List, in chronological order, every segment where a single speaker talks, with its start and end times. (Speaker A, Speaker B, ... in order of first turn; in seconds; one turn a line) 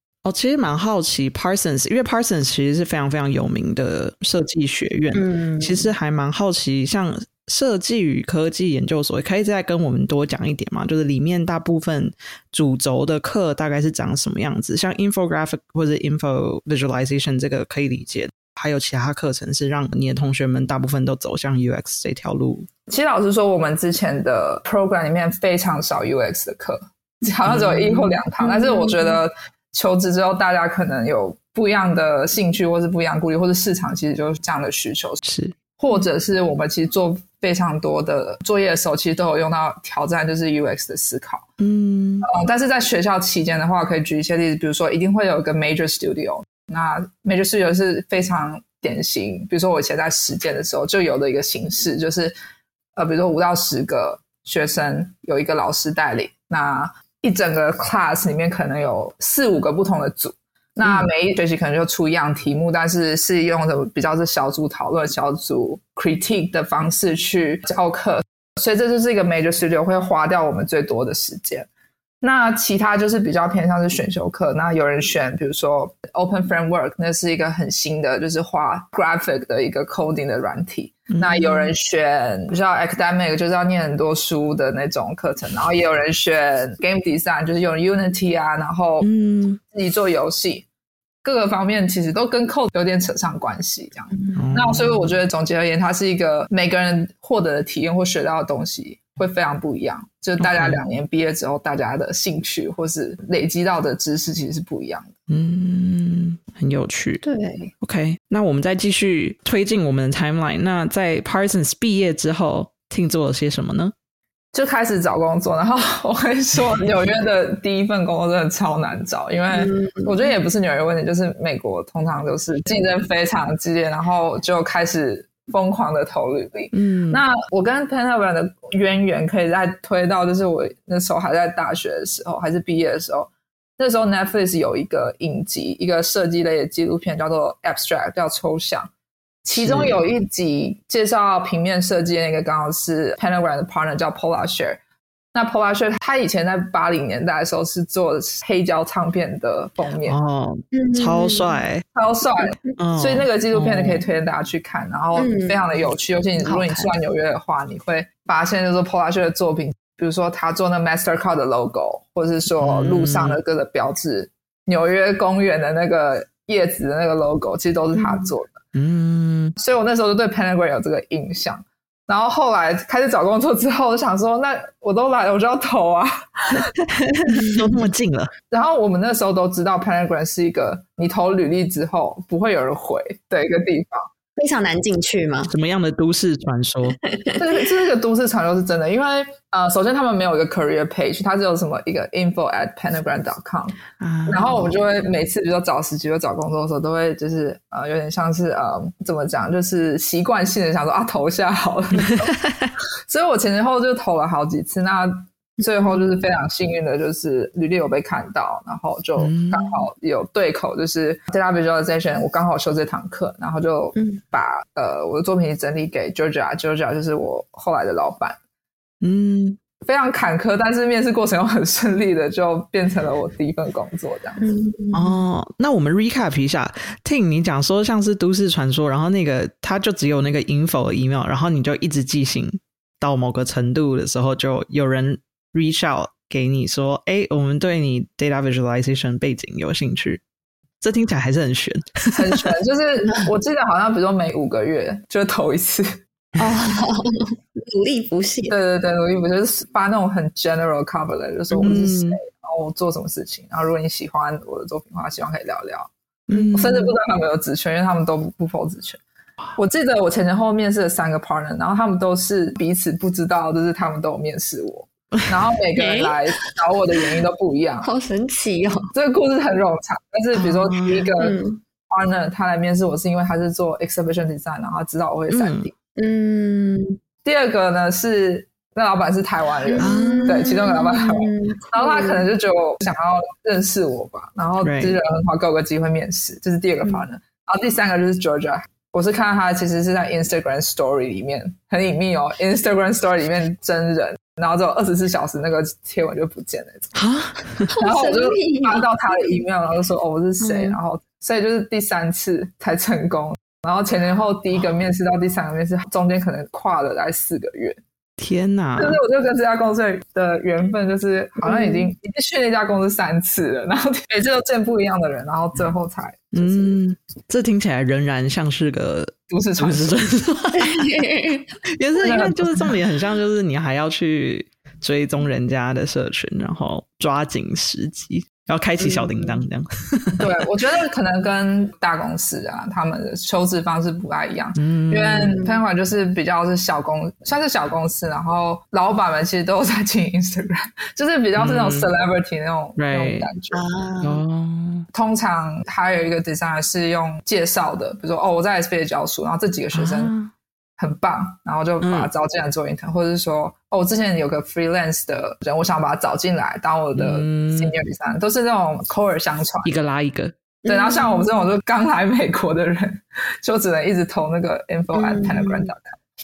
Speaker A: 0.2-22.7
Speaker B: 5.1-5.9
Speaker C: 22.9-35.2
Speaker A: 27.4-28.2
Speaker B: 28.4-29.2
Speaker A: 35.2-35.6
Speaker C: 35.8-41.5
Speaker A: 41.6-42.3
Speaker C: 42.2-52.3
Speaker C: 52.9-71.7
Speaker C: 72.2-89.1
Speaker A: 81.1-81.7
Speaker A: 89.0-89.6
Speaker C: 89.7-90.7
Speaker C: 91.2-105.1
Speaker A: 94.3-95.1
Speaker A: 100.4-100.8
Speaker A: 105.3-107.2
Speaker B: 107.2-107.7
Speaker A: 107.8-113.9
Speaker C: 114.5-138.9
Speaker B: 119.5-120.3
Speaker A: 126.7-127.2
Speaker C: 139.4-144.8
Speaker A: 139.6-140.0
Speaker C: 145.3-150.2
Speaker A: 150.0-151.9
Speaker B: 150.7-151.6
Speaker C: 151.9-168.6
Speaker A: 152.8-154.1
Speaker B: 155.1-155.6
Speaker B: 156.4-156.9
Speaker A: 162.6-163.4
Speaker B: 167.9-168.3
Speaker A: 168.8-169.6
Speaker C: 169.6-176.7
Speaker A: 176.9-178.3
Speaker B: 177.3-177.6
Speaker C: 178.5-184.1
Speaker B: 184.4-185.5
Speaker A: 185.5-187.0
Speaker B: 187.0-187.4
Speaker C: 187.4-202.3
Speaker A: 194.0-194.6
Speaker A: 202.1-202.7
Speaker C: 203.1-218.4
Speaker A: 209.2-209.8
Speaker B: 213.9-214.2
Speaker A: 219.0-219.6
Speaker C: 219.8-224.4
Speaker B: 224.4-225.2
Speaker A: 224.9-240.2
Speaker A: 240.8-242.5
Speaker C: 242.1-246.0
Speaker B: 246.4-248.5
Speaker C: 248.5-255.9
Speaker A: 251.6-252.2
Speaker A: 256.3-256.8
Speaker B: 256.3-256.9
Speaker C: 256.5-259.0
Speaker C: 259.6-267.9
Speaker B: 265.8-266.2
Speaker B: 267.8-268.9
Speaker C: 268.9-275.7
Speaker A: 270.3-271.1
Speaker B: 271.2-271.6
Speaker A: 275.3-275.7
Speaker B: 275.9-277.0
Speaker C: 277.2-296.9
Speaker B: 279.7-282.3
Speaker A: 279.8-280.5
Speaker A: 284.6-285.0
Speaker A: 296.9-297.7
Speaker B: 297.7-298.9
Speaker C: 297.8-307.8
Speaker B: 300.4-300.8
Speaker A: 308.2-309.0
Speaker C: 308.8-316.8
Speaker B: 311.4-311.9
Speaker A: 316.3-320.9
Speaker C: 319.3-320.0
Speaker B: 320.6-321.5
Speaker A: 321.8-330.3
Speaker C: 322.0-322.8
Speaker B: 328.8-329.5
Speaker C: 330.2-343.6
Speaker A: 334.6-335.4
Speaker B: 335.4-335.6
Speaker A: 341.4-341.9
Speaker A: 342.8-343.3
Speaker B: 343.5-344.2
Speaker A: 344.0-344.9
Speaker C: 344.9-350.1
Speaker A: 349.7-350.3
Speaker C: 350.8-359.7
Speaker A: 351.8-352.1
Speaker A: 356.9-357.8
Speaker A: 359.6-360.4
Speaker B: 360.6-361.3
Speaker C: 360.7-365.9
Speaker B: 364.9-365.7